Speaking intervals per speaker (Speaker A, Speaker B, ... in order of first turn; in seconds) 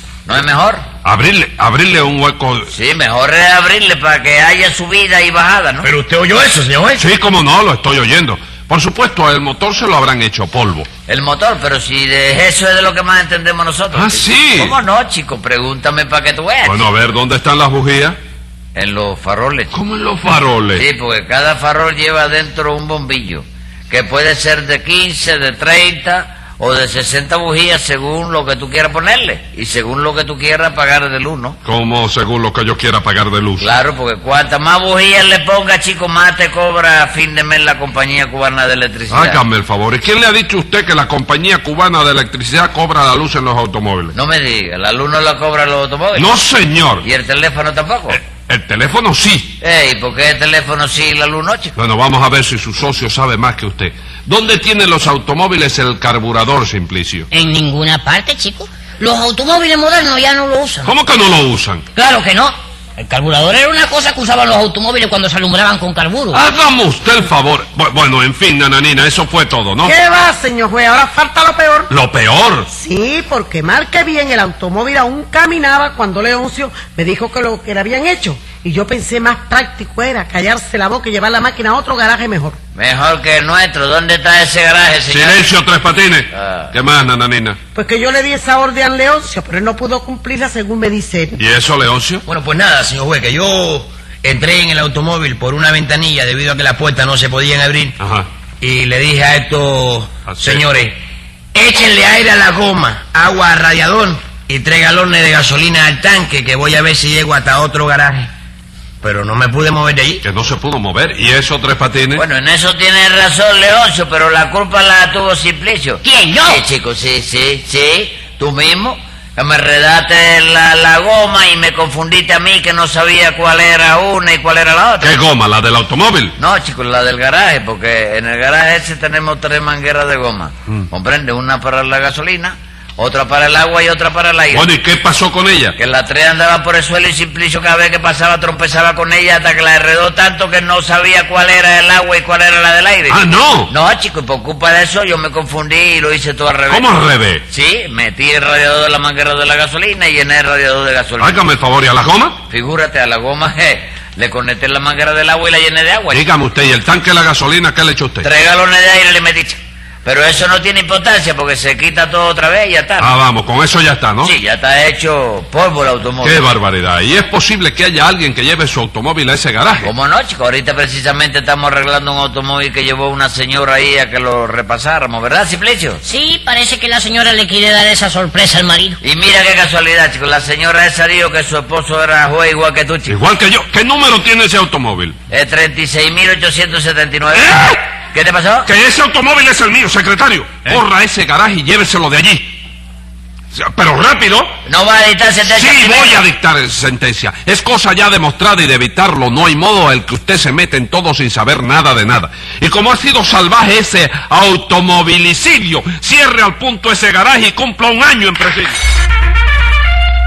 Speaker A: 0.2-0.8, 2.7-5.9, 11.1-16.9, 18.7-19.7, 20.7-31.6, 33.6-39.4, 44.1-46.4, 47.0-48.2, 49.6-51.7, 82.8-85.4, 86.3-86.7, 112.2-125.2, 126.4-134.7, 135.8-146.9, 147.5-151.4, 152.5-156.2, 158.2-163.1, 164.2-166.5, 169.8-176.0, 179.0-183.2, 185.3-187.6, 188.1-188.7, 194.7-196.2
Speaker B: 1.0-2.7, 7.0-10.9, 13.9-14.8, 16.6-18.2, 19.7-20.8, 31.6-33.7, 39.1-44.1, 46.1-47.0, 48.1-49.5, 51.8-57.3, 60.8-61.8, 66.3-69.9, 71.9-72.7, 85.1-87.6, 91.4-92.2, 98.0-98.3, 100.3-100.6, 110.2-112.2, 125.0-126.3, 134.5-135.8, 143.1-143.7, 146.7-147.4, 151.2-152.4, 156.1-158.3, 163.0-164.3, 166.2-169.9, 183.1-185.2, 187.3-187.8, 188.6-192.5, 193.5-194.5, 195.4-208.8
Speaker C: 5.8-7.0, 92.3-97.9, 98.6-101.0, 101.5-108.3, 109.0-110.2
Speaker D: 57.3-60.9, 61.9-66.4, 116.0-116.7, 176.0-179.0
Speaker E: 69.8-71.9, 72.7-82.6, 87.7-91.4